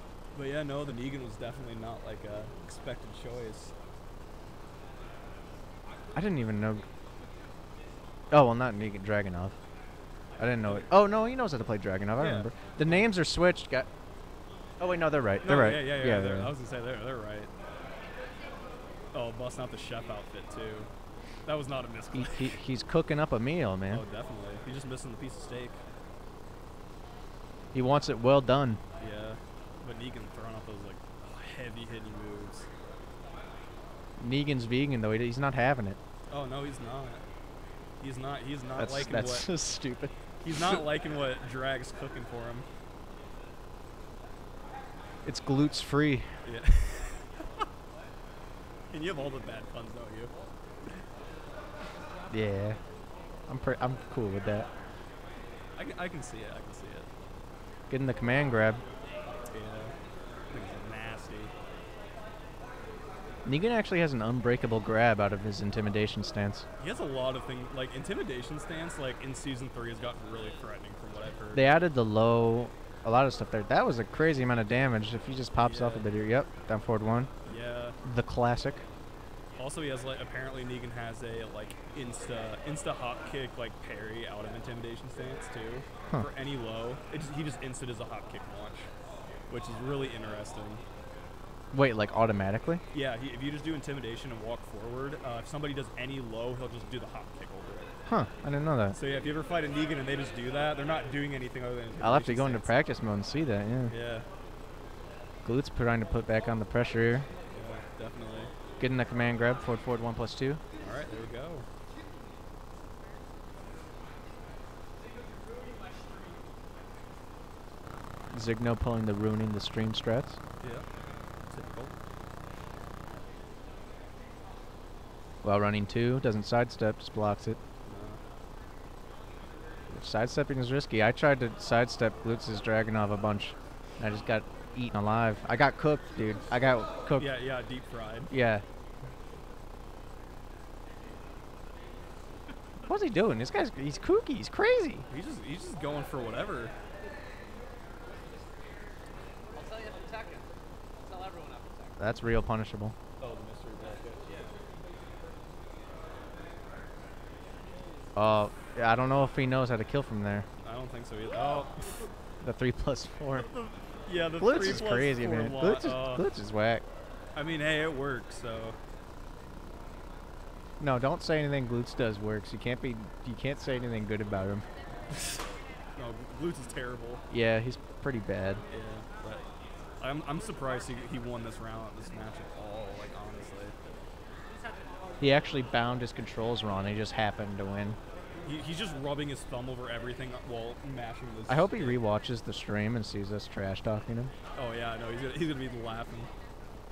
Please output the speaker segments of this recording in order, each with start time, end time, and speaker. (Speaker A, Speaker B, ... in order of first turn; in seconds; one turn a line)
Speaker A: 0.3-3.7
Speaker B: 6.1-6.8
Speaker B: 8.3-9.6
Speaker B: 10.4-13.9
Speaker A: 12.2-12.5
Speaker B: 14.8-16.5
Speaker A: 15.4-17.5
Speaker A: 19.1-20.9
Speaker A: 21.4-22.6
Speaker B: 22.1-24.0
Speaker A: 23.9-25.8
Speaker B: 27.7-28.8
Speaker A: 29.0-32.6
Speaker B: 34.2-36.0
Speaker A: 36.3-37.2
Speaker A: 38.0-39.5
Speaker B: 38.8-40.8
Speaker A: 40.4-42.6
Speaker B: 45.2-46.3
Speaker A: 46.4-47.4
Speaker A: 48.9-50.3
Speaker B: 52.3-52.8
Speaker B: 53.5-54.7
Speaker A: 55.8-57.1
Speaker B: 57.9-58.8
Speaker A: 59.5-59.9
Speaker A: 60.5-61.5
Speaker B: 63.4-66.6
Speaker A: 66.8-71.7
Speaker B: 71.5-77.3
Speaker A: 75.6-76.1
Speaker A: 77.5-78.0
Speaker B: 78.0-78.8
Speaker A: 79.6-88.9
Speaker A: 89.5-90.8
Speaker B: 91.7-92.8
Speaker A: 92.9-97.9
Speaker B: 98.0-99.0
Speaker A: 98.9-102.7
Speaker B: 102.0-103.9
Speaker A: 103.9-104.2
Speaker B: 105.4-107.3
Speaker A: 107.5-108.5
Speaker B: 108.8-110.6
Speaker A: 110.8-111.7
Speaker B: 118.3-120.4
Speaker A: 121.5-121.9
Speaker B: 125.4-127.6
Speaker A: 127.9-128.2
Speaker B: 129.9-137.3
Speaker A: 137.2-138.3
Speaker B: 138.3-138.6
Speaker B: 142.8-145.0
Speaker A: 145.1-146.7
Speaker C: 149.5-152.0
Speaker B: 152.0-152.9
Speaker A: 153.2-154.2
Speaker B: 158.2-160.4
Speaker A: 160.6-162.1
Speaker B: 162.4-163.5
Speaker A: 163.4-166.2
Speaker B: 164.4-166.8
Speaker A: 167.3-168.8
Speaker B: 170.8-174.7
Speaker A: 175.9-177.2
Speaker B: 177.3-178.6
Speaker A: 178.7-179.4
Speaker A: 180.0-183.7
Speaker B: 185.2-188.0
Speaker A: 188.4-192.0
Speaker B: 191.5-194.3
Speaker A: 194.5-196.3